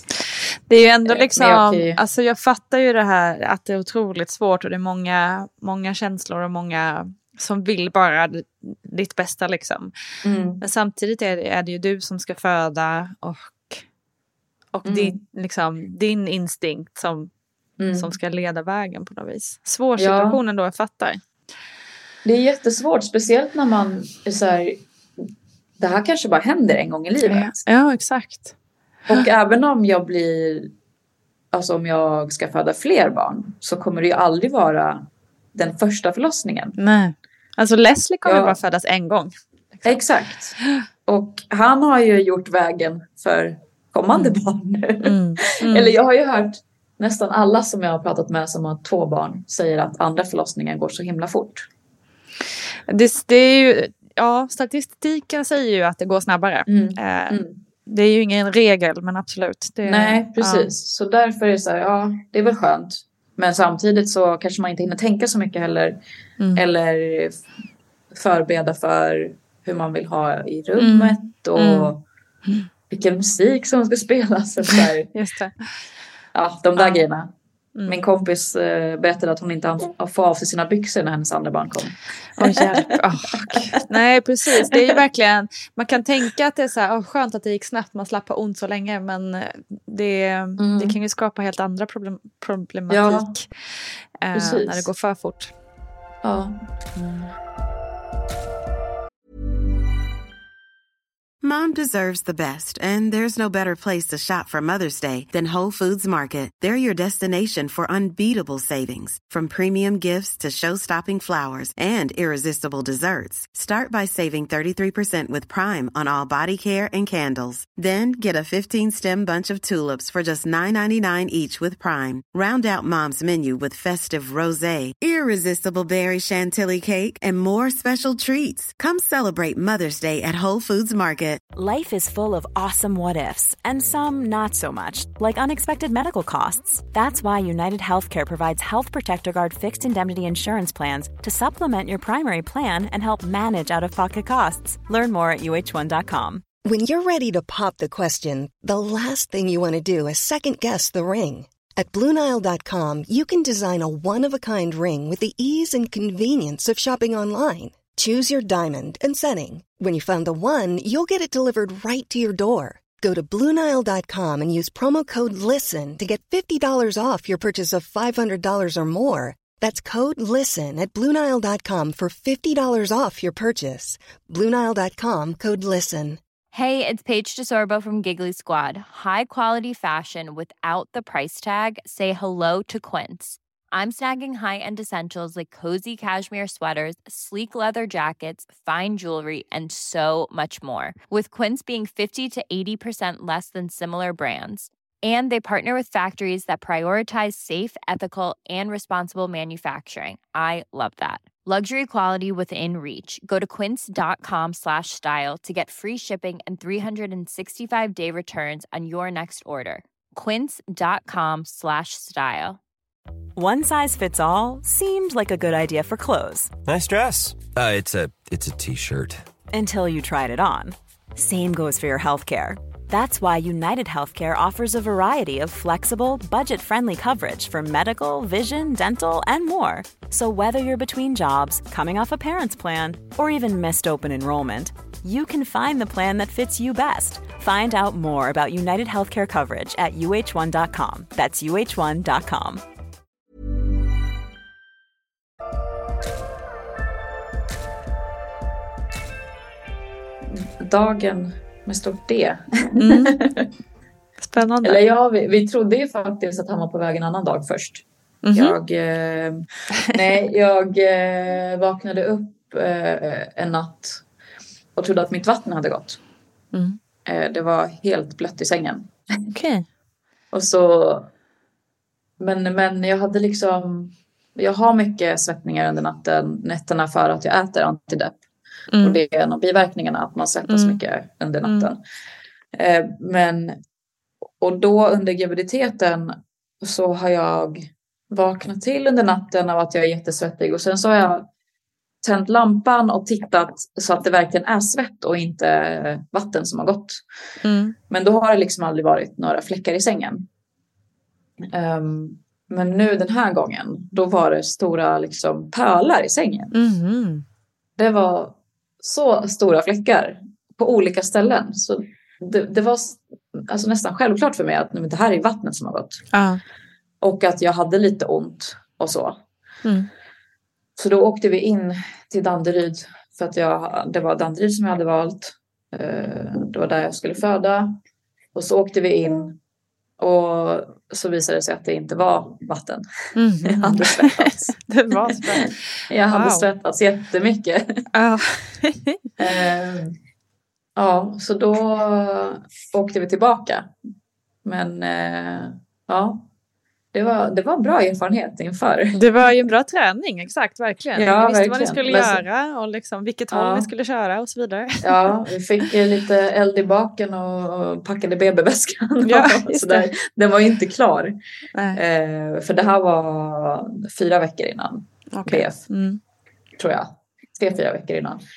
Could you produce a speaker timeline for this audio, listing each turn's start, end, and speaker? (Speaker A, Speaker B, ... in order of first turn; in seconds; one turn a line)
Speaker A: 0.7-9.9
Speaker B: 1.1-2.0
Speaker B: 10.2-10.6
Speaker A: 10.6-13.8
Speaker A: 14.7-17.3
Speaker B: 14.8-15.2
Speaker B: 17.8-18.1
Speaker A: 17.9-21.2
Speaker B: 20.0-20.4
Speaker B: 22.2-24.8
Speaker B: 25.8-27.6
Speaker A: 27.2-28.5
Speaker B: 29.1-30.7
Speaker B: 31.5-36.8
Speaker A: 36.8-40.0
Speaker B: 38.2-38.6
Speaker B: 39.9-40.6
Speaker B: 41.1-51.7
Speaker A: 45.0-46.0
Speaker A: 52.9-60.7
Speaker B: 56.7-57.6
Speaker B: 59.9-66.0
Speaker B: 66.6-67.4
Speaker B: 68.1-72.0
Speaker A: 70.8-71.9
Speaker B: 72.9-75.1
Speaker A: 74.8-75.7
Speaker B: 76.3-77.3
Speaker A: 76.8-77.0
Speaker B: 77.9-82.9
Speaker A: 82.4-93.5
Speaker B: 90.6-91.0
Speaker B: 92.9-93.3
Speaker A: 94.2-95.5
Speaker B: 94.3-94.9
Speaker B: 96.2-96.6
Speaker C: 101.4-131.4
Speaker D: 131.5-146.4
Speaker E: 146.6-176.2
Speaker F: 176.5-212.6
Speaker D: 213.4-216.6
Speaker G: 216.7-219.2
Speaker D: 219.5-242.6
Speaker B: 250.3-253.5
Speaker A: 252.8-253.2
Speaker A: 254.2-254.8
Speaker B: 254.6-264.0
Speaker A: 258.2-258.6
Speaker B: 264.8-266.0
Speaker A: 266.5-266.8
Speaker B: 267.1-268.9
Speaker A: 269.3-269.7
Speaker B: 270.3-271.1
Speaker B: 272.2-278.2
Speaker A: 278.7-279.0
Speaker B: 278.8-281.8
Speaker A: 280.5-280.8
Speaker A: 281.4-281.7
Speaker B: 282.6-283.6
Speaker B: 284.4-291.3
Speaker B: 292.0-297.0
Speaker A: 297.4-297.8
Speaker B: 297.9-300.2
Speaker B: 301.5-306.5
Speaker A: 306.5-307.2
Speaker B: 307.8-316.0
Speaker A: 316.1-316.4
Speaker B: 317.0-319.2
Speaker B: 320.8-327.8
Speaker B: 328.4-329.4
Speaker B: 330.0-332.9
Speaker A: 333.2-336.5
Speaker B: 333.5-334.6
Speaker B: 335.1-335.4
Speaker B: 335.9-337.9
Speaker A: 337.9-339.0
Speaker B: 339.2-339.9
Speaker B: 340.8-343.7
Speaker B: 344.4-346.2
Speaker B: 346.9-349.0
Speaker A: 348.9-354.8
Speaker B: 351.0-352.2
Speaker B: 353.3-353.7
Speaker B: 354.8-361.2
Speaker A: 359.1-359.9
Speaker A: 361.5-361.8
Speaker B: 361.7-365.7
Speaker A: 365.1-366.0
Speaker B: 366.6-368.2